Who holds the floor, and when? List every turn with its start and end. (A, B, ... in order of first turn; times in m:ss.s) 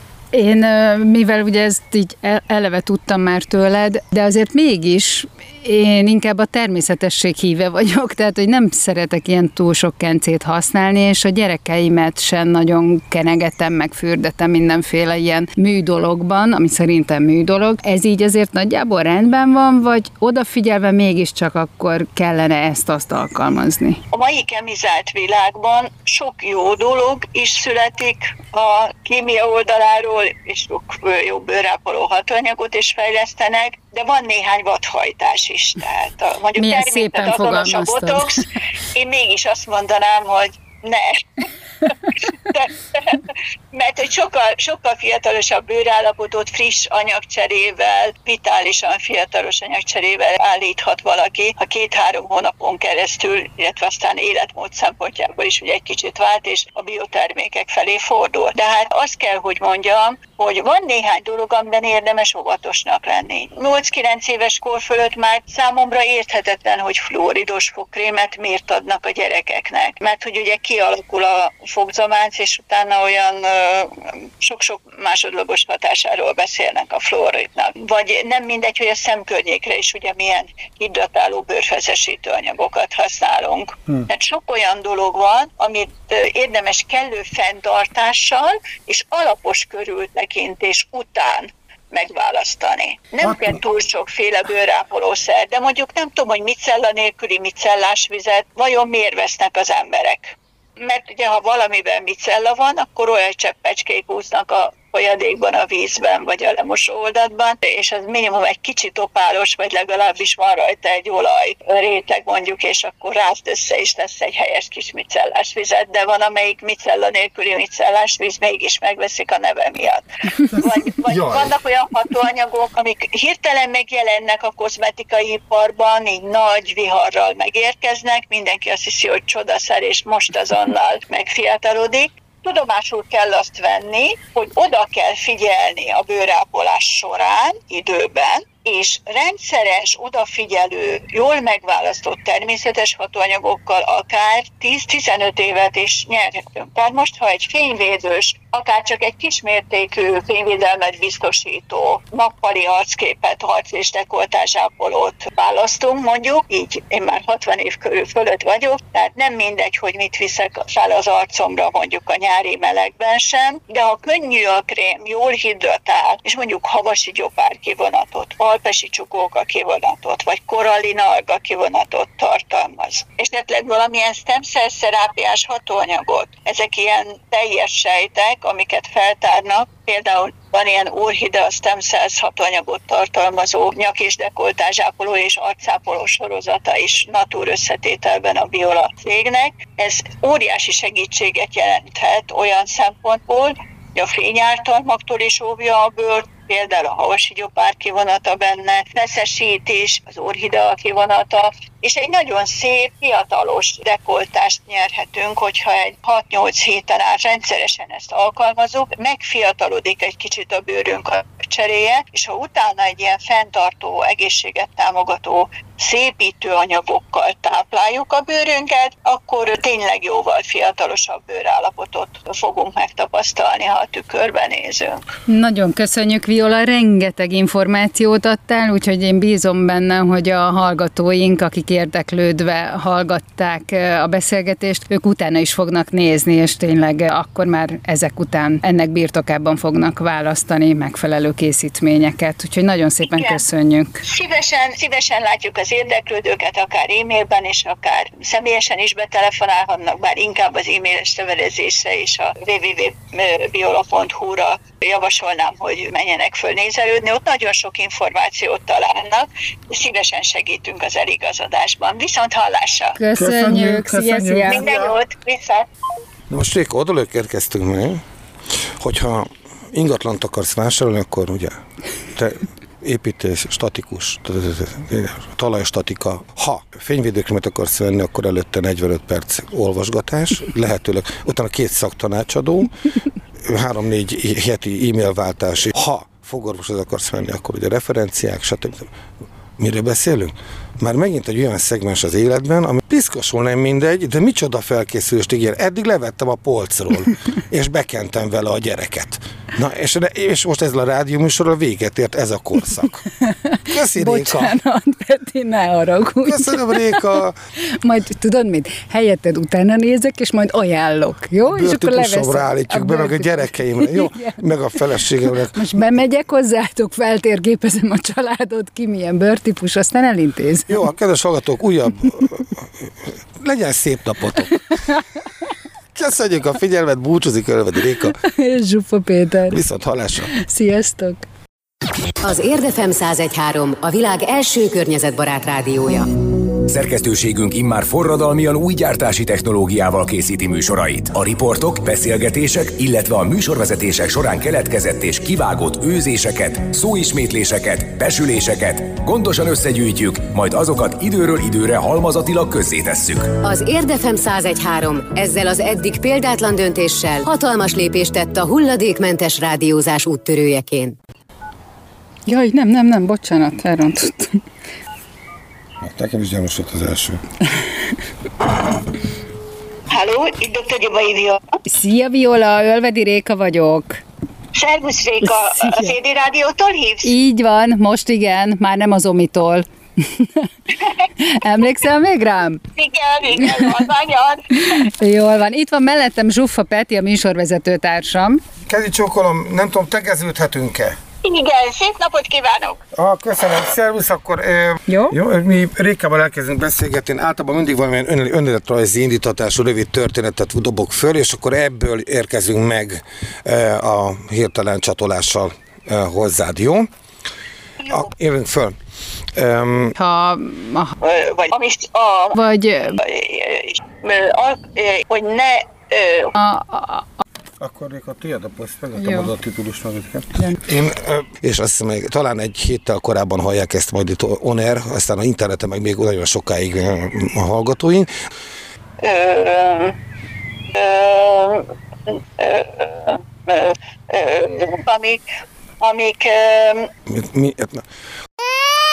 0:00.3-0:24.0 A
0:24.1-0:41.5 B
0:36.6-0:38.6 A
0:42.0-3:45.0 B
2:01.1-2:01.4 C
3:45.3-4:04.0 A
4:03.0-4:03.4 B
4:04.0-4:23.0 B
4:23.0-4:24.6 A
4:23.1-4:24.9 C
4:24.5-4:25.7 B
4:26.3-4:28.0 C
4:28.8-4:31.6 C
4:32.1-4:42.7 C
4:43.4-4:48.9 C
4:49.6-5:03.0 C
5:03.2-5:14.4 A
5:03.7-5:04.5 C
5:06.2-5:07.3 C
5:11.5-5:15.6 C
5:15.5-5:20.8 A
5:20.7-5:24.6 C
5:25.9-5:28.2 C
5:28.0-5:29.6 A
5:29.5-5:30.3 C
5:30.3-5:31.3 A
5:32.2-5:36.2 D
5:36.6-5:53.4 E
5:53.4-6:01.0 D
6:02.3-6:04.4 A
6:05.8-6:07.2 C
6:09.9-6:11.6 B
6:11.6-6:14.0 A
6:14.5-6:17.1 B
6:15.3-6:15.9 A
6:17.0-6:22.6 A
6:22.8-6:24.8 B
6:23.4-6:23.8 A
6:24.5-6:28.4 A
6:28.6-6:31.0 C
6:31.2-6:32.8 B
6:32.9-6:46.9 C
6:34.9-6:35.2 A
6:47.8-6:48.1 B
6:47.9-6:48.8 C
6:49.3-6:49.9 C
6:50.0-6:50.9 A
6:51.0-6:52.4 B
6:52.3-6:53.0 A
6:53.0-6:56.3 B
6:56.4-6:57.1 A
6:57.6-7:08.1 C
6:58.9-6:59.3 A
7:09.0-7:10.0 B
7:10.7-7:15.2 B
7:15.8-7:16.9 B
7:17.1-7:17.8 C